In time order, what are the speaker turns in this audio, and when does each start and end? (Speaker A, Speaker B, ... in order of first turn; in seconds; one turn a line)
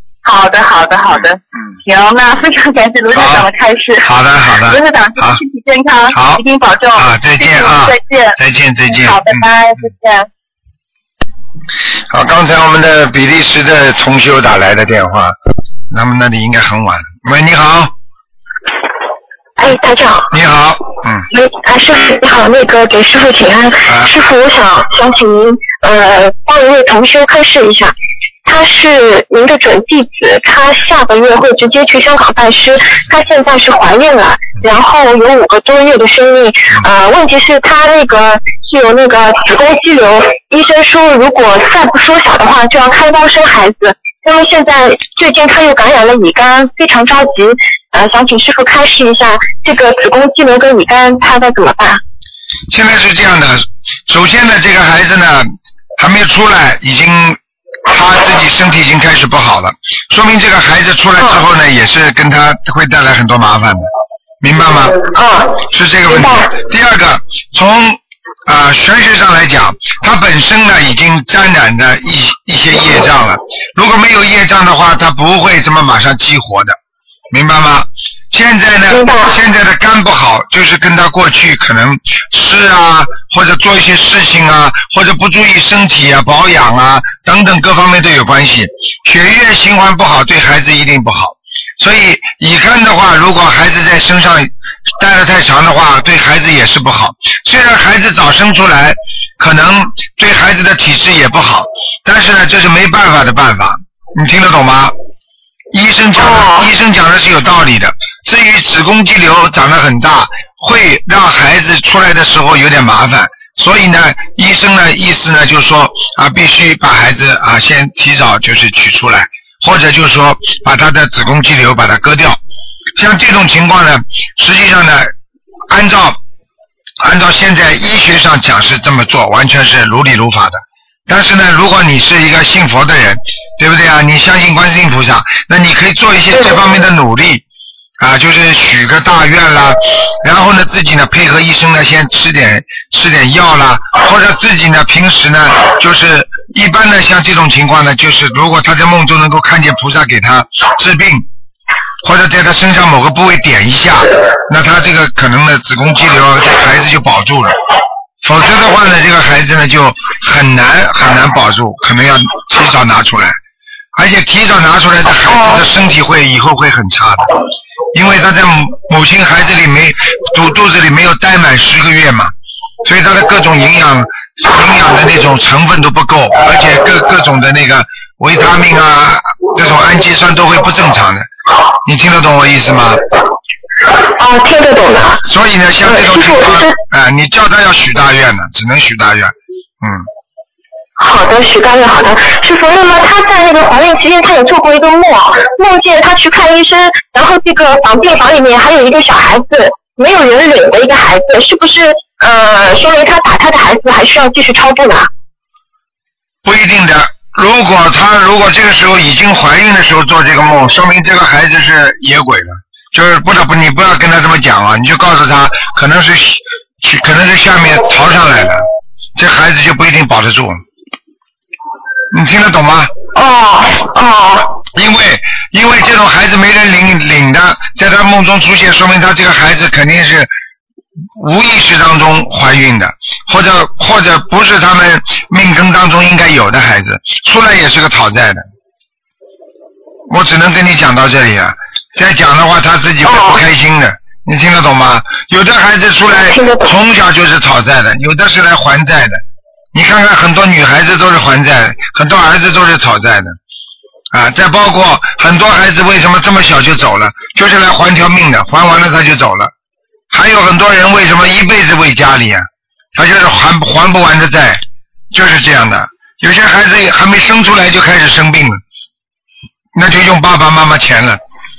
Speaker A: 0.2-4.1
Speaker B: 3.1-3.5
Speaker B: 4.0-5.4
Speaker A: 4.6-10.3
Speaker B: 6.1-6.4
Speaker B: 7.0-9.5
Speaker B: 12.1-15.3
Speaker B: 15.9-17.9
Speaker C: 19.6-20.3
Speaker B: 20.3-21.3
Speaker C: 21.3-27.9
Speaker B: 23.9-24.1
Speaker C: 28.4-52.0
Speaker B: 52.7-63.9
Speaker B: 64.4-65.0
Speaker C: 65.0-66.5
Speaker B: 65.6-76.8
Speaker B: 77.3-104.9
Speaker C: 78.9-79.4
Speaker B: 105.7-122.4
Speaker C: 106.2-106.7
Speaker B: 123.0-125.1
Speaker B: 125.7-126.2
Speaker B: 127.0-137.4
Speaker B: 138.0-151.3
Speaker B: 152.0-157.6
Speaker B: 158.2-163.4
Speaker B: 163.9-167.3
Speaker B: 167.9-172.3
Speaker B: 172.8-181.3
Speaker B: 181.8-183.0
Speaker C: 183.9-185.2
Speaker B: 185.2-190.1
Speaker C: 185.8-186.8
Speaker C: 191.0-205.1
Speaker B: 206.4-218.6
Speaker B: 219.2-220.6
Speaker B: 222.1-222.9
Speaker C: 223.1-224.5
Speaker B: 224.7-230.3
Speaker B: 231.2-238.5
Speaker B: 240.1-249.2
Speaker C: 243.1-243.4
Speaker C: 246.1-246.7
Speaker B: 249.7-253.4
Speaker B: 254.1-259.5
Speaker B: 260.1-268.6
Speaker B: 269.8-271.2